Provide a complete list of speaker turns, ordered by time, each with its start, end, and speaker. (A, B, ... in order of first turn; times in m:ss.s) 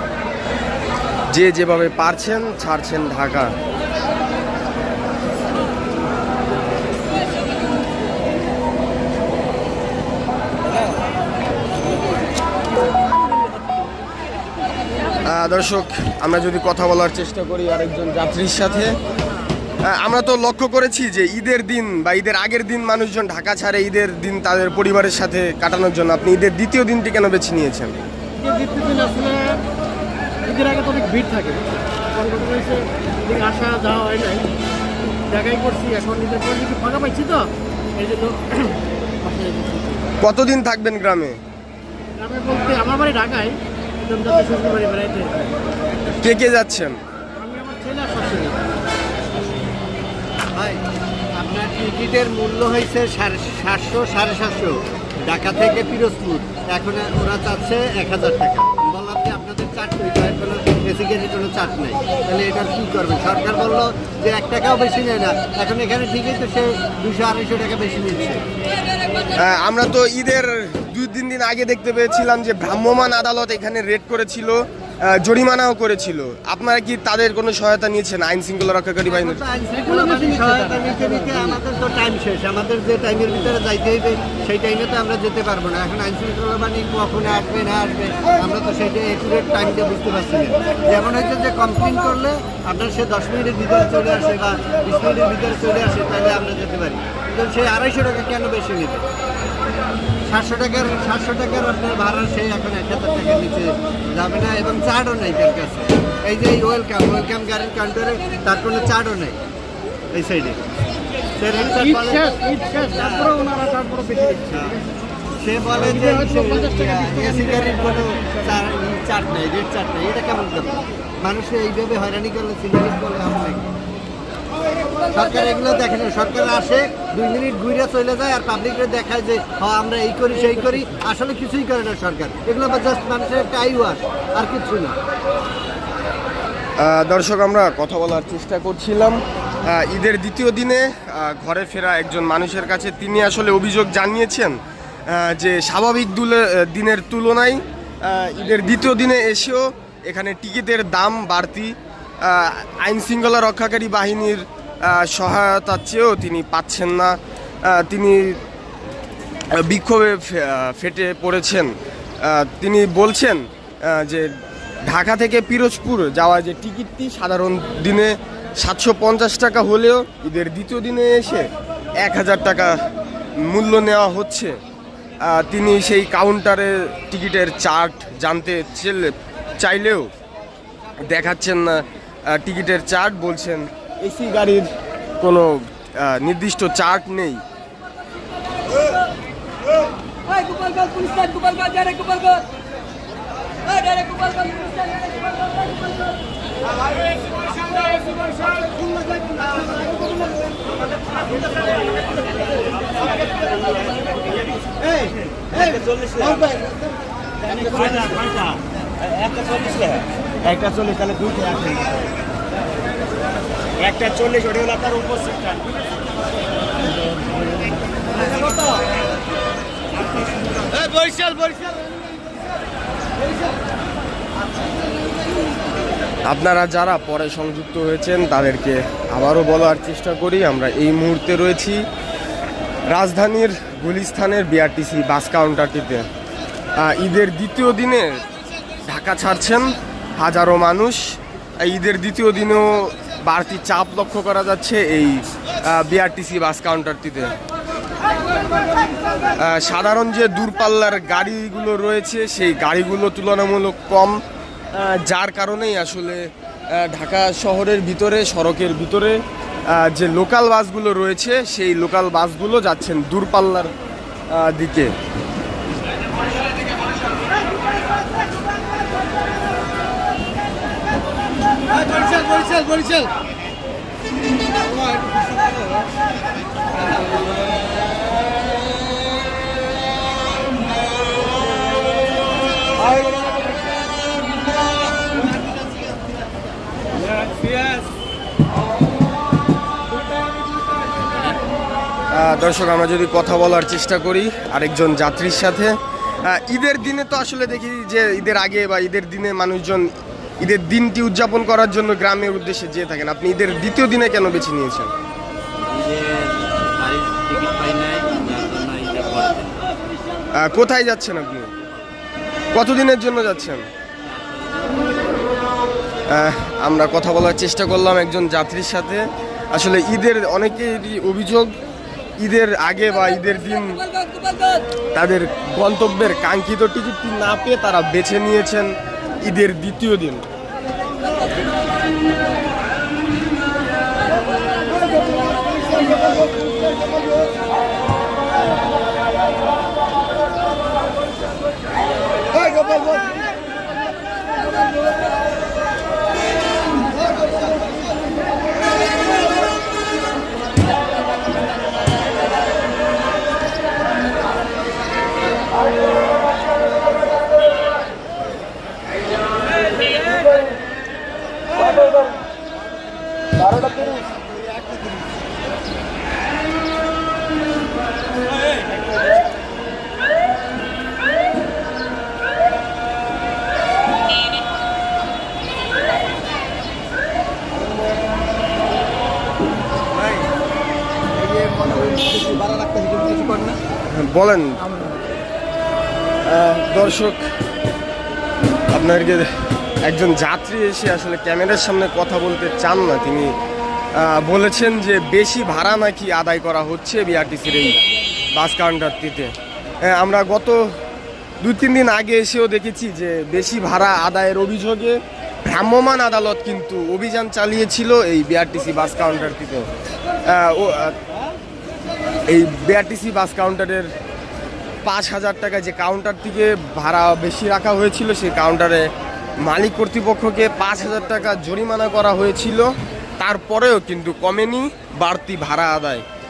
0:01.3-0:03.6 A
0:15.3-0:19.0 A
0:19.8-0:27.9 A
0:28.4-0:29.6 B
0:30.4-0:34.5 B
0:35.3-0:40.1 B
0:40.2-0:41.4 A
0:42.2-0:45.6 B
0:46.2-0:47.0 A
0:47.4-0:48.6 B
0:50.5-0:50.8 C
0:51.3-1:08.4 C
1:09.4-1:19.4 A
1:19.1-1:39.0 C
1:40.3-1:49.4 C
1:50.1-1:50.6 C
1:51.4-1:53.5 C
1:52.2-1:54.4 B
1:54.4-2:03.7 C
1:56.1-1:57.0 B
2:05.1-2:15.0 C
2:16.8-2:38.4 A
2:39.5-2:52.8 A
2:53.4-2:54.6 A
2:55.2-3:00.1 A
3:01.0-3:07.4 A
3:10.5-3:12.3 B
3:13.9-3:14.8 B
3:22.9-3:26.6 D
3:27.4-3:32.1 D
3:33.8-3:35.7 D
3:40.7-3:41.8 D
3:46.2-3:51.9 A
3:52.9-3:56.1 A
3:56.8-3:58.2 A
3:58.9-4:07.3 A
4:09.4-4:14.2 A
4:14.7-4:23.7 A
4:24.3-4:24.9 A
4:31.9-4:33.1 D
4:52.1-5:04.9 A
5:05.6-5:09.7 D
5:10.3-5:11.5 A
5:12.5-5:13.6 A
5:14.0-5:15.0 D
5:16.1-5:21.5 A
5:22.2-5:24.3 A
5:24.9-5:30.2 A
6:21.2-6:23.6 D
6:23.8-6:24.9 A
6:26.2-6:27.2 A
6:28.7-6:33.3 A
6:33.9-6:37.8 A
6:38.3-6:39.3 A
6:39.9-6:40.8 A
6:41.4-6:49.7 A
6:50.2-6:51.0 A
6:52.3-6:53.9 A
6:54.8-6:58.9 A
6:59.4-7:06.0 A